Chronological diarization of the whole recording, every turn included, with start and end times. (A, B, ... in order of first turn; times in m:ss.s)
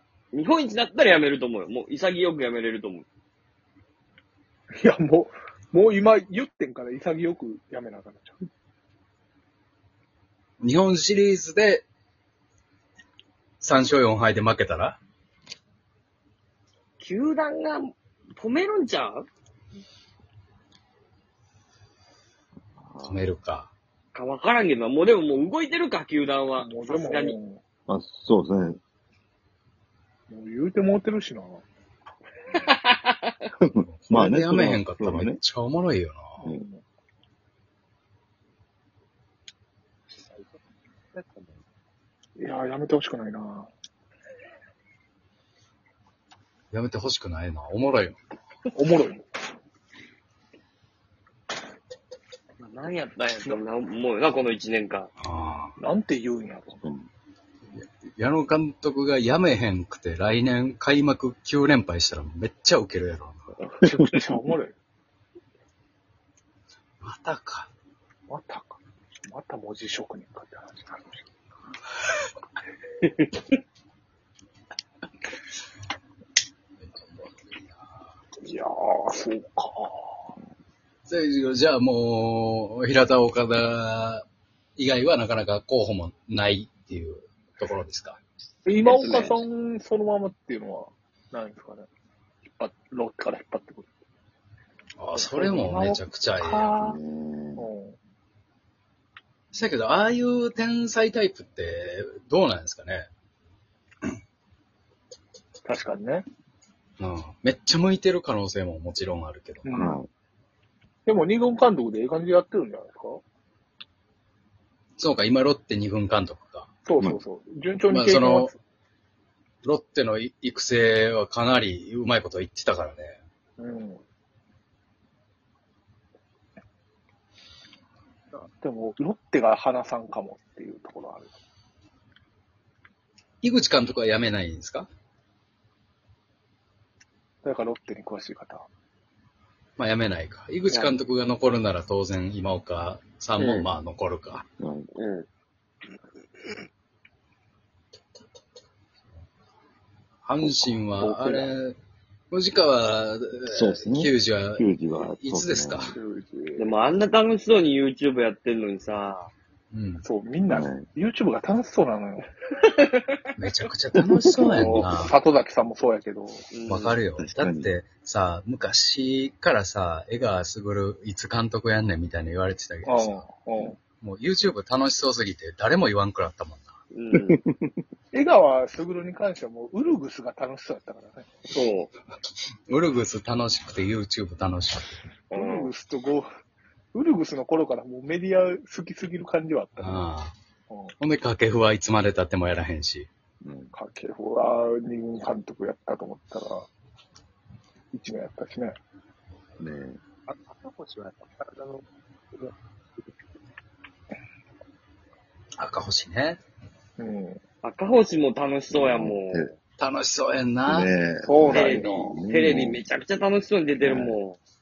0:00.3-0:03.1 A
0:04.8-0:08.5 B
0:10.6-0:11.8 C
0:13.6-0:15.0 C
0:17.0-0:19.3 A
0:22.8-0:23.3 D
0:23.0-0:23.7 C
0:24.1-0:27.4 A
0:26.6-0:27.6 B
0:27.9-0:28.8 D
0:30.3-0:31.6 B
0:32.6-0:33.3 A
0:33.8-0:35.4 D
0:33.8-0:36.3 C
0:36.4-0:36.8 B
0:40.1-0:41.6 E
0:42.4-0:43.7 B
0:46.7-0:48.2 C
0:48.7-0:49.2 B
0:52.6-0:55.1 A
0:55.2-0:55.8 C
0:55.8-0:56.9 B
0:56.8-0:57.1 D
0:57.7-1:03.5 C
1:03.8-1:04.7 B
1:07.0-1:07.7 C
1:08.3-1:11.2 B
1:16.8-1:17.8 C
1:18.4-1:20.3 B
1:21.1-1:24.2 C
1:24.8-1:28.2 C
1:28.6-1:31.9 B
1:28.8-1:29.4 A
1:32.4-1:33.9 B
1:35.0-1:36.7 C
1:35.1-1:37.0 B
1:36.8-1:37.7 D
1:37.6-1:38.0 B
1:39.5-1:43.1 C
1:45.6-1:46.2 B
1:47.0-1:49.7 C
1:49.6-1:50.0 B
1:49.7-1:50.1 D
1:51.1-1:53.2 B
1:55.0-1:56.7 C
1:56.8-1:58.6 B
1:57.9-1:58.5 C
1:59.6-2:03.2 C
2:03.6-2:04.0 B
2:08.6-2:11.4 B
2:13.4-2:14.9 C
2:17.4-2:18.7 B
2:19.8-2:24.4 C
2:20.7-2:21.0 A
2:23.4-2:23.7 A
2:24.6-2:24.9 D
2:25.0-2:25.3 A
2:30.2-2:31.8 C
2:31.0-2:31.5 A
2:32.3-2:36.0 C
2:33.5-2:35.9 D
2:35.9-2:36.7 B
2:36.6-2:39.3 A
2:39.7-2:40.0 C
2:40.0-2:42.2 B
2:40.5-2:40.9 D
2:43.4-2:45.2 C
2:44.0-2:44.7 D
2:44.4-2:46.5 B
2:46.5-2:47.0 A
2:46.7-2:53.3 C
2:47.2-2:47.7 D
2:52.8-2:53.8 B
2:54.0-2:56.8 C
2:56.9-2:57.4 A
2:58.1-3:01.4 B
3:01.5-3:01.9 A
3:02.7-3:05.0 C
3:05.3-3:05.7 A
3:05.3-3:06.3 B
3:06.9-3:10.1 B
3:09.8-3:10.4 C
3:10.7-3:11.0 B
3:11.0-3:13.1 C
3:13.4-3:13.7 D
3:13.7-3:16.7 B
3:17.9-3:18.8 B
3:19.6-3:20.0 D
3:20.3-3:23.1 E
3:25.6-3:26.4 C
3:27.0-3:27.4 B
3:27.6-3:29.5 A
3:28.7-3:29.5 D
3:29.8-3:30.9 C
3:30.7-3:32.8 D
3:31.2-3:32.2 B
3:31.5-3:34.4 A
3:33.8-3:34.2 D